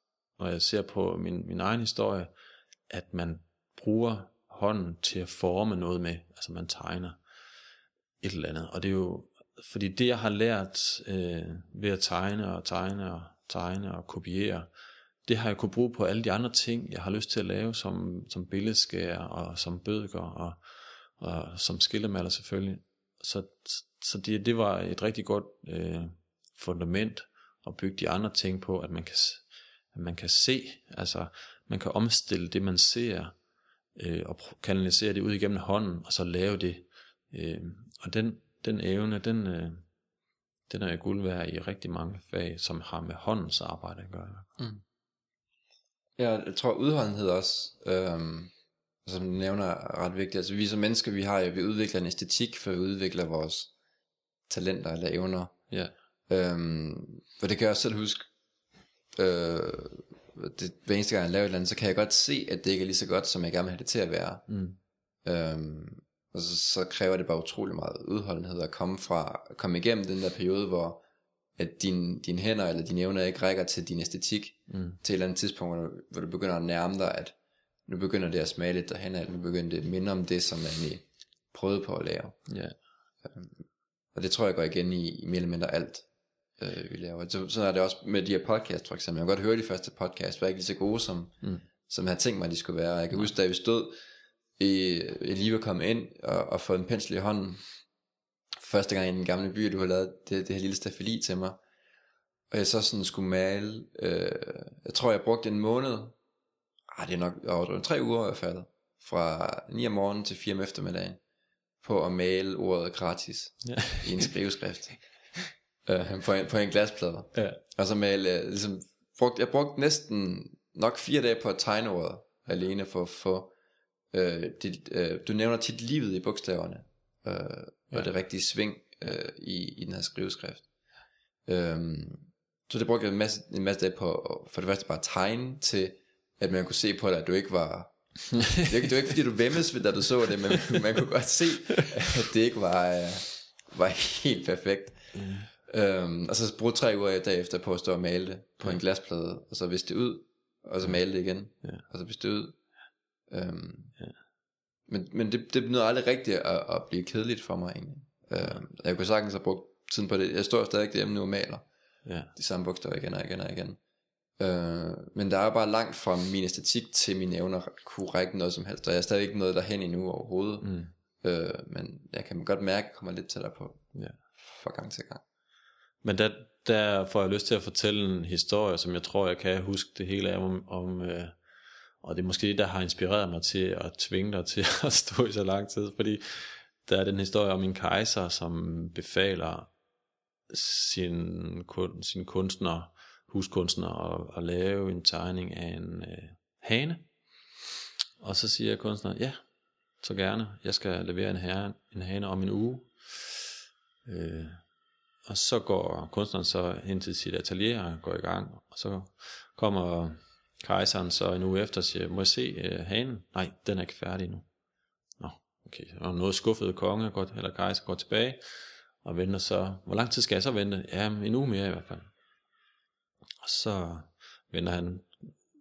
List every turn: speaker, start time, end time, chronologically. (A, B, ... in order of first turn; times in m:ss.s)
0:00.4-0:02.3 A
0:02.9-0:07.2 A
0:08.2-0:14.7 A
0:15.3-0:20.6 A
0:21.2-0:33.4 A
0:34.0-0:39.8 A
0:40.7-0:44.5 A
0:46.2-0:48.5 B
0:49.0-0:53.7 B
0:54.5-0:55.6 B
0:56.3-0:58.3 B
0:59.2-1:04.4 B
1:04.5-1:04.8 A
1:05.2-1:11.0 B
1:11.6-1:17.4 B
1:14.7-1:15.0 A
1:17.9-1:22.4 B
1:22.5-1:22.8 A
1:23.2-1:23.6 B
1:24.1-1:26.1 B
1:26.6-1:34.0 B
1:34.6-1:37.6 B
1:38.6-1:41.6 B
1:42.5-1:46.2 B
1:46.9-1:51.2 B
1:51.8-1:55.0 B
1:53.6-1:54.3 A
1:55.8-2:03.5 B
1:57.3-1:57.6 A
2:04.1-2:10.7 B
2:11.5-2:17.9 B
2:18.3-2:18.7 A
2:18.5-2:25.0 B
2:25.1-2:25.5 A
2:25.6-2:32.6 B
2:33.3-2:34.0 B
2:34.9-2:41.7 B
2:42.1-2:42.3 A
2:42.4-2:43.8 B
2:44.4-2:53.8 B
2:50.6-2:50.9 A
2:54.4-2:55.2 B
2:56.0-3:01.4 A
3:02.0-3:09.7 A
3:10.5-3:17.1 A
3:18.2-3:19.4 A
3:20.0-3:23.5 A
3:24.1-3:24.6 A
3:25.3-3:34.5 A
3:35.2-3:38.4 A
3:39.0-3:42.1 A
3:43.4-3:45.4 A